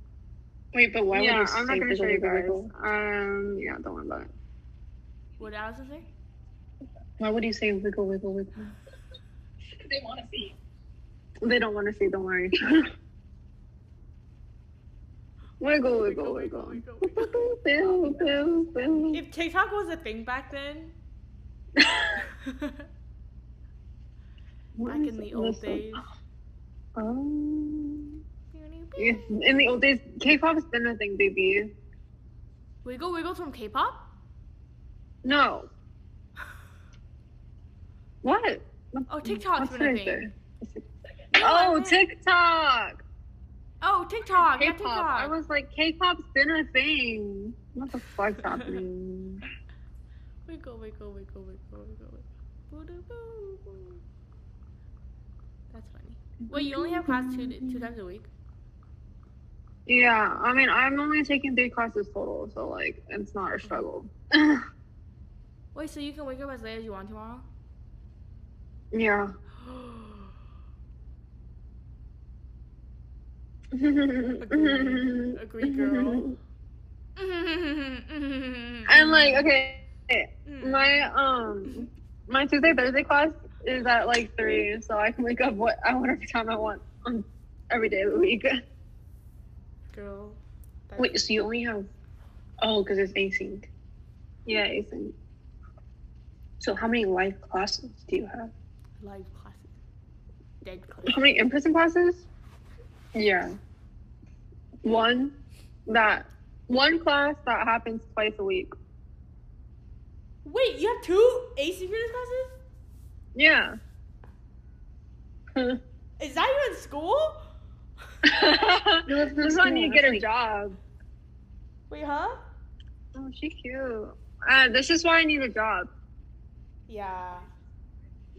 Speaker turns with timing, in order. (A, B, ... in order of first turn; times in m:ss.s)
0:00.7-0:02.7 A
0:01.1-0:04.3 B
0:05.4-0:06.1 C
0:07.2-0:08.6 A
0:11.4-0:12.9 B
0:15.6-0:19.2 B
0:15.9-0:17.5 C
0:19.1-0:20.9 C
0:21.8-0:22.1 B
0:22.4-0:22.8 C
0:24.8-0:25.9 B
0:24.9-0:26.0 C
0:27.0-0:28.2 B
0:28.5-0:29.4 C
0:29.0-0:31.7 B
0:32.8-0:34.1 C
0:35.2-0:35.7 B
0:38.2-0:43.0 B
0:39.1-0:40.2 C
0:41.3-0:42.0 C
0:43.8-0:45.3 C
0:44.4-0:49.4 B
0:48.4-0:48.8 C
0:50.4-0:54.0 C
0:55.7-0:58.3 C
0:56.5-0:57.7 B
0:59.8-1:04.6 B
1:05.7-1:07.5 C
1:08.9-1:09.3 B
1:09.6-1:10.3 C
1:13.7-1:16.4 B
1:14.4-1:16.4 C
1:17.2-1:19.5 C
1:18.9-1:28.6 B
1:20.5-1:21.1 C
1:29.9-1:31.2 C
1:31.0-1:31.9 A
1:32.6-1:33.7 A
1:34.4-1:35.1 B
1:36.6-1:38.5 A
1:39.0-1:39.7 C
1:40.6-1:41.2 C
1:41.0-1:42.2 B
1:43.1-1:43.6 B
1:44.8-1:45.3 B
1:45.9-1:48.7 B
1:50.4-1:52.6 C
1:53.3-1:53.8 B
1:56.2-1:57.4 C
1:58.2-2:00.8 B
1:59.0-2:00.2 A
2:01.9-2:02.4 C
2:03.1-2:05.9 B
2:06.9-2:07.5 C